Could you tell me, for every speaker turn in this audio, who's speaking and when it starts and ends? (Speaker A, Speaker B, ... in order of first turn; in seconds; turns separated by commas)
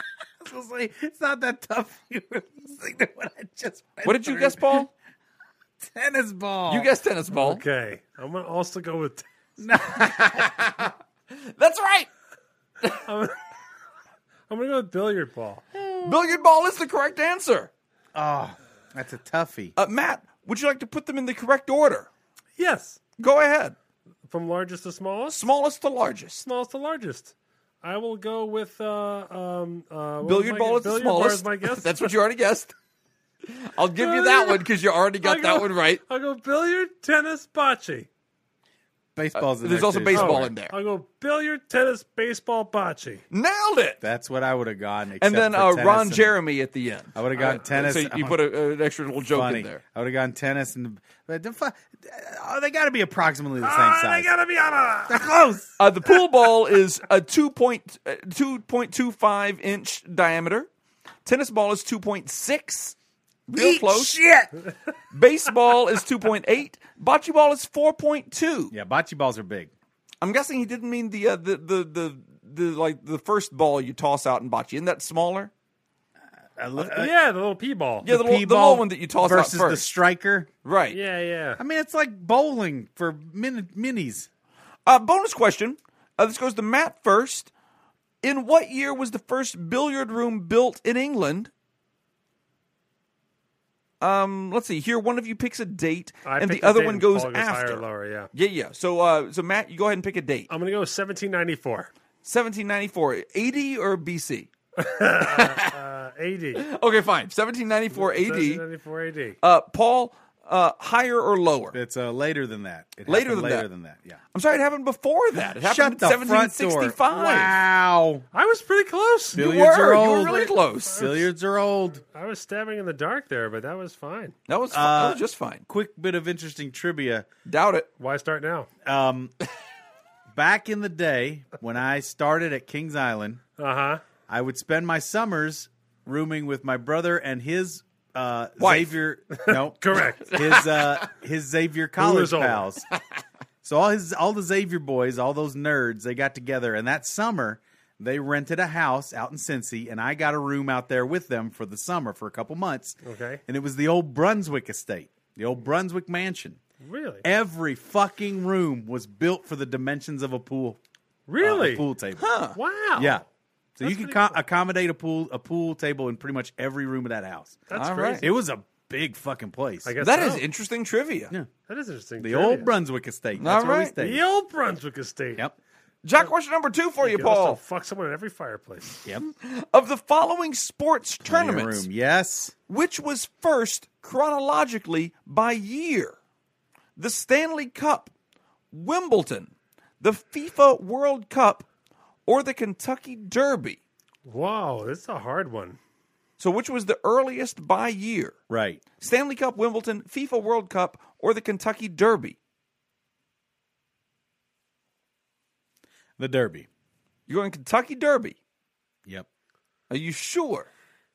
Speaker A: 0.4-4.9, Speaker B: 4.0-4.9, Speaker A: 5.8-6.9, Speaker B: 6.7-7.6, Speaker C: 7.3-9.2, Speaker A: 9.6-10.8, Speaker B: 9.9-12.1, Speaker C: 12.9-13.4, Speaker C: 14.5-15.7, Speaker A: 15.8-16.2, Speaker B: 16.0-17.7, Speaker A: 18.1-19.7, Speaker B: 19.8-22.1, Speaker C: 22.6-23.0, Speaker B: 23.2-23.8, Speaker C: 24.3-25.4, Speaker B: 25.3-26.4, Speaker C: 26.4-32.1, Speaker B: 30.2-32.7, Speaker B: 33.5-36.0, Speaker C: 34.0-34.6, Speaker C: 35.2-38.1, Speaker A: 39.1-40.5, Speaker B: 39.3-40.7, Speaker C: 40.1-43.2, Speaker B: 43.3-44.0, Speaker A: 44.0-46.3, Speaker B: 45.2-49.8, Speaker A: 47.1-48.4, Speaker A: 49.3-54.3, Speaker C: 53.6-55.3, Speaker A: 55.1-55.8, Speaker B: 55.8-60.7, Speaker B: 61.2-62.9, Speaker B: 63.5-64.2, Speaker A: 63.5-64.5, Speaker B: 65.1-68.7, Speaker A: 68.7-69.7, Speaker B: 70.2-75.5, Speaker A: 76.5-77.1, Speaker C: 76.8-78.1, Speaker B: 78.0-79.9, Speaker A: 78.0-80.5, Speaker B: 80.6-81.0, Speaker C: 80.9-81.6, Speaker A: 81.6-84.3, Speaker B: 84.8-87.5, Speaker B: 88.2-91.5, Speaker B: 94.0-100.5, Speaker C: 96.2-98.3, Speaker C: 100.5-101.9, Speaker B: 102.2-104.5, Speaker C: 104.8-106.7, Speaker B: 105.2-105.7, Speaker B: 106.5-108.6, Speaker C: 107.9-109.4, Speaker B: 109.4-111.8, Speaker A: 111.7-114.2, Speaker B: 113.1-113.7, Speaker B: 114.3-117.5, Speaker A: 115.5-118.2, Speaker C: 118.3-119.4, Speaker A: 119.3-122.0, Speaker B: 119.3-121.1, Speaker C: 120.3-121.2, Speaker C: 122.0-124.3, Speaker B: 124.5-125.6, Speaker A: 124.7-127.3, Speaker B: 127.5-127.9, Speaker C: 128.0-128.7, Speaker A: 128.8-129.3, Speaker A: 130.3-133.4, Speaker C: 133.6-134.0, Speaker A: 134.3-142.8, Speaker B: 138.6-138.9, Speaker C: 139.3-140.6, Speaker B: 140.4-141.0, Speaker C: 142.0-142.7, Speaker A: 143.6-156.6, Speaker C: 153.0-153.4, Speaker C: 156.8-157.2, Speaker A: 157.2-160.8, Speaker C: 161.3-161.9, Speaker A: 161.4-162.3, Speaker B: 162.2-162.6, Speaker C: 162.5-163.2, Speaker A: 163.0-163.2, Speaker A: 163.8-167.6, Speaker C: 163.8-164.4, Speaker C: 167.7-168.3, Speaker B: 167.7-168.2, Speaker A: 168.2-169.9, Speaker C: 169.8-170.4, Speaker B: 170.0-171.3, Speaker C: 171.7-172.7, Speaker A: 172.2-174.2, Speaker B: 173.4-173.9, Speaker C: 174.0-175.5, Speaker B: 176.0-177.6, Speaker C: 177.0-179.0, Speaker B: 179.2-181.9, Speaker A: 181.2-182.5, Speaker B: 182.7-186.2, Speaker B: 187.0-188.1, Speaker B: 188.7-191.7, Speaker B: 192.2-193.8, Speaker C: 194.2-195.8, Speaker B: 196.4-198.3, Speaker A: 198.5-198.8, Speaker B: 199.0-202.4, Speaker A: 206.2-206.7, Speaker B: 207.3-208.4, Speaker B: 209.9-210.7